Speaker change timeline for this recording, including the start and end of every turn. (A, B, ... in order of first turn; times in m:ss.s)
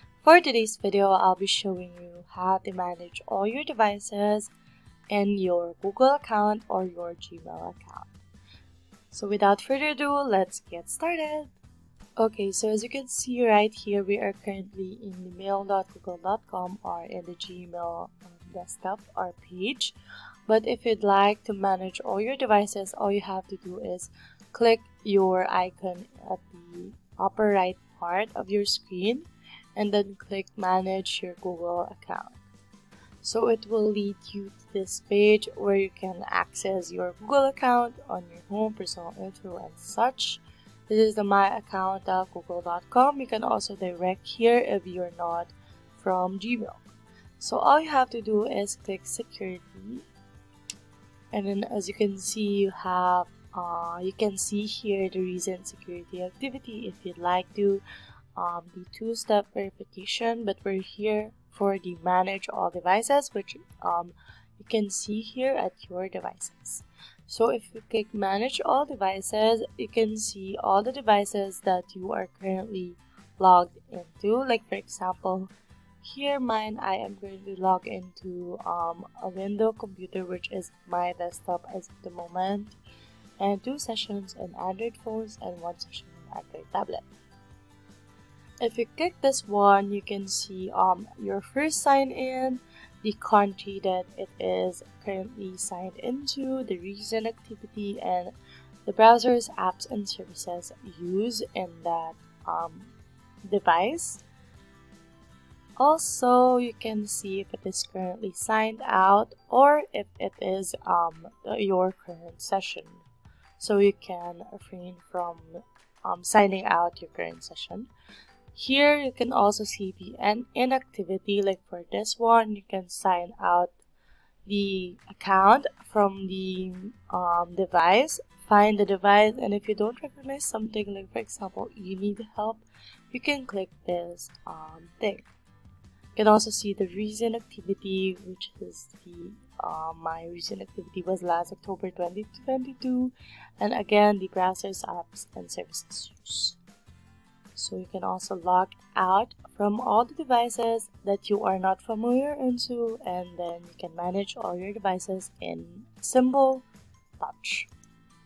0:00.2-0:04.5 A
0:05.1-0:08.1 A
0:09.1-0:11.5 A
0:12.2-0:20.0 A
0:20.5-0:32.4 A
0:33.2-0:46.9 A
0:47.4-0:50.0 A
0:51.3-0:57.8 A
0:58.4-1:15.5 A
1:16.0-1:22.8 A
1:23.4-1:27.0 A
1:28.6-1:38.3 A
1:38.8-1:42.9 A
1:43.4-1:44.2 A
1:45.8-1:53.0 A
1:53.6-1:57.9 A
1:58.5-2:03.7 A
2:04.4-2:15.3 A
2:16.2-2:26.6 A
2:27.6-2:36.6 A
2:37.2-2:37.7 A